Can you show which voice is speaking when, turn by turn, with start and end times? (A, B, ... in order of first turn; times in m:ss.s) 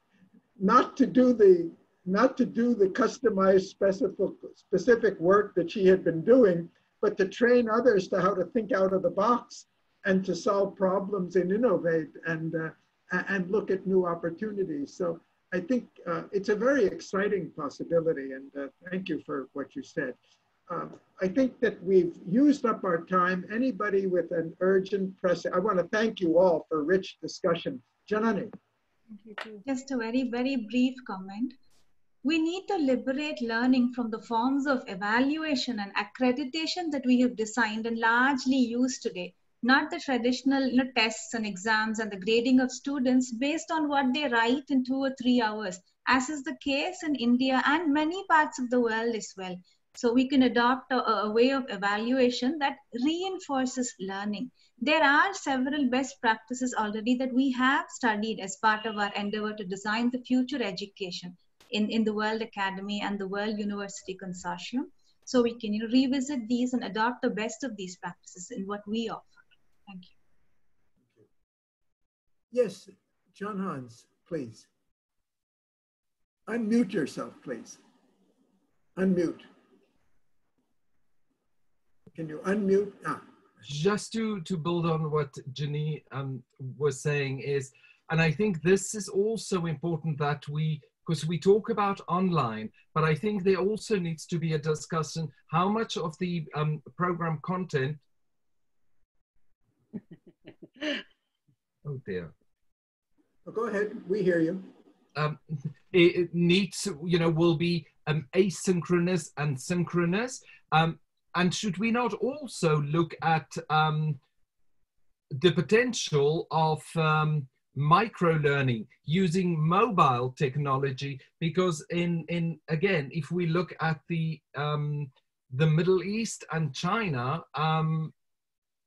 0:00.6-0:20.2 A
0:20.7-0:28.5 A
0:29.3-0:31.6 B
0:32.2-1:09.4 B
1:09.9-1:10.1 B
1:12.5-1:14.7 A
1:16.5-1:17.8 A
1:19.0-1:19.5 A
1:22.1-1:23.2 A
1:23.6-1:38.0 C
1:41.8-1:42.3 C
1:43.5-1:44.7 A
1:45.2-1:54.2 C
1:55.3-2:08.1 C